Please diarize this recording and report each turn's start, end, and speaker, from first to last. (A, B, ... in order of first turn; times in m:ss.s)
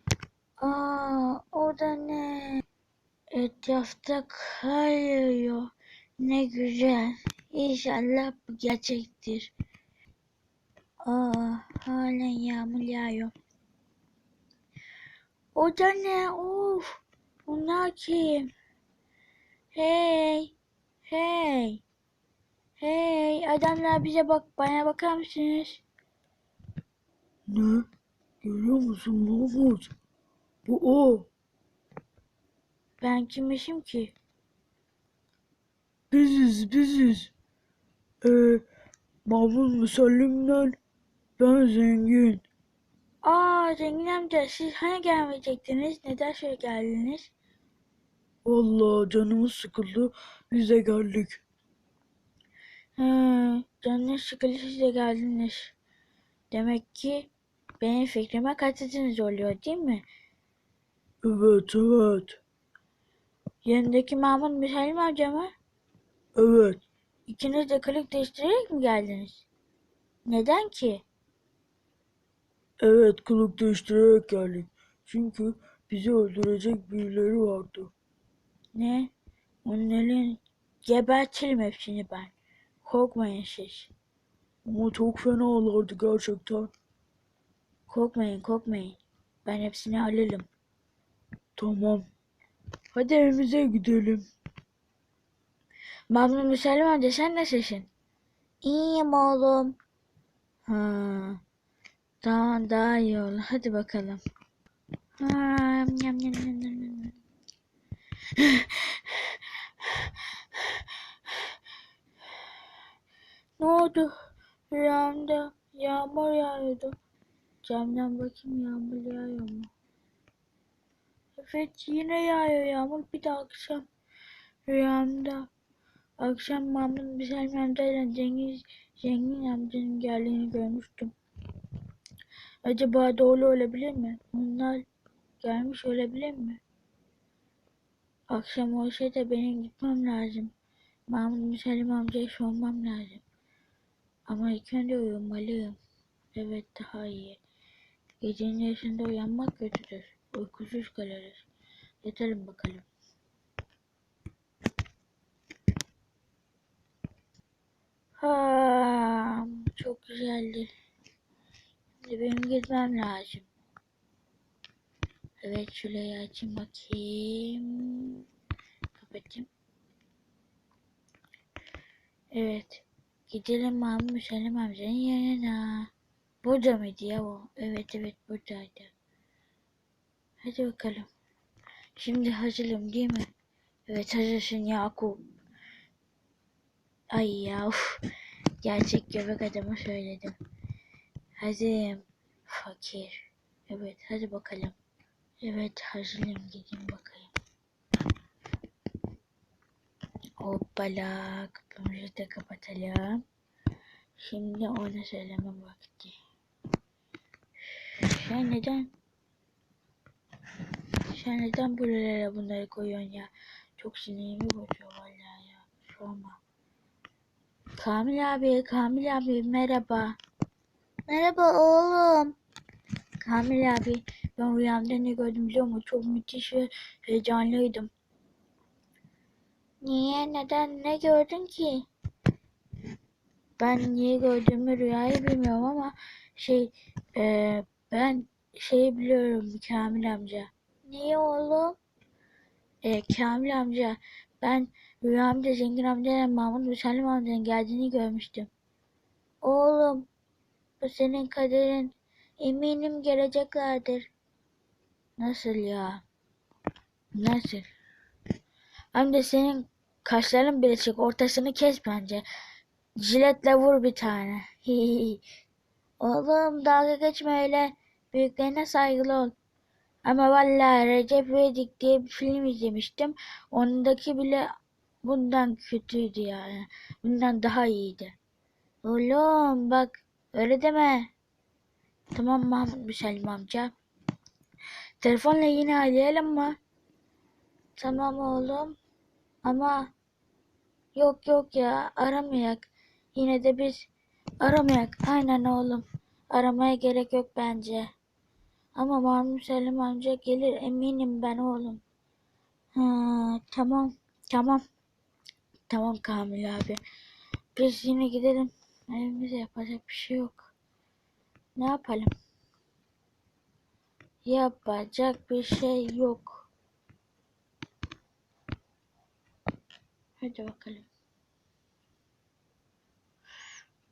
0:00.6-0:02.6 A
0:03.4-0:05.7 A
0:06.2-0:09.5 A
0:11.0-0:13.3 A
0:15.6-0:18.5 A
0:19.8-0:20.5 A
0:21.1-0:21.8 A
0:22.8-0:25.8 A
0:27.5-0:27.8 B
0:28.5-0:29.8 B
0:28.5-0:29.8 A
0:30.7-0:31.3 B
0:33.0-0:34.1 A
0:36.1-0:36.7 B
0:36.2-0:37.3 A
0:39.3-0:40.7 B
0:39.4-0:40.4 A
0:41.4-0:42.4 B
0:41.4-0:42.4 A
0:43.2-0:47.3 A
0:48.5-0:49.9 B
0:48.5-0:50.0 A
0:50.6-0:51.4 B
0:50.6-0:51.1 A
0:53.0-0:55.8 A
0:56.5-1:00.0 A
1:01.3-1:02.2 A
1:01.3-1:02.3 B
1:03.6-1:05.5 A
1:06.4-1:06.7 B
1:06.4-1:06.8 A
1:07.3-1:09.5 A
1:10.3-1:11.0 A
1:12.9-1:17.9 B
1:13.0-1:14.6 A
1:16.0-1:16.4 A
1:17.0-1:17.8 A
1:18.8-1:19.1 A
1:19.6-1:23.9 A
1:24.7-1:26.7 B
1:24.9-1:26.6 A
1:27.9-1:30.5 A
1:31.6-1:32.0 B
1:33.0-1:34.2 B
1:33.6-1:34.0 A
1:36.1-1:37.9 A
1:38.6-1:39.7 A
1:40.7-1:41.4 A
1:42.2-1:44.2 A
1:45.2-1:47.2 A
1:48.4-1:50.8 A
1:53.6-1:54.1 A
1:54.7-1:57.0 A
1:57.6-1:59.7 A
2:01.4-2:03.8 A
2:04.7-2:05.5 A
2:06.2-2:11.1 A
2:12.6-2:14.8 A
2:15.4-2:16.6 A
2:18.3-2:20.5 A
2:21.1-2:23.2 A
2:24.3-2:25.8 A
2:26.3-2:27.4 A
2:28.2-2:31.5 A
2:32.0-2:32.9 A
2:38.2-2:40.7 A
2:42.0-2:43.5 A
2:45.4-2:48.2 A
2:49.0-2:49.5 A
2:52.3-2:55.9 A
2:56.4-2:58.9 A
3:00.4-3:01.1 A
3:02.0-3:03.3 A
3:03.9-3:05.2 A
3:07.1-3:08.0 A
3:08.6-3:10.4 A
3:11.4-3:14.8 A
3:15.4-3:17.3 A
3:20.4-3:23.2 A
3:24.2-3:26.2 A
3:28.0-3:28.9 A
3:31.1-3:36.4 A
3:37.8-3:40.2 A
3:41.1-3:42.4 A
3:43.2-3:47.9 A
3:49.8-3:51.8 A
3:53.6-4:01.8 A
4:02.8-4:08.5 A
4:09.4-4:10.0 A
4:10.8-4:14.0 A
4:15.2-4:16.0 A
4:17.2-4:17.7 A
4:18.9-4:22.2 A
4:23.0-4:25.2 A
4:26.0-4:29.3 A
4:30.1-4:34.4 A
4:35.0-4:38.2 A
4:38.8-4:41.1 A
4:42.1-4:43.7 A
4:45.0-4:46.6 A
4:47.8-4:48.7 A
4:49.5-4:49.8 A
4:51.0-4:53.9 A
4:54.4-4:57.9 A
4:58.8-5:01.8 A
5:02.8-5:04.6 A
5:05.7-5:06.8 A
5:07.6-5:10.5 A
5:11.6-5:12.1 A
5:14.2-5:16.5 A
5:20.2-5:20.9 A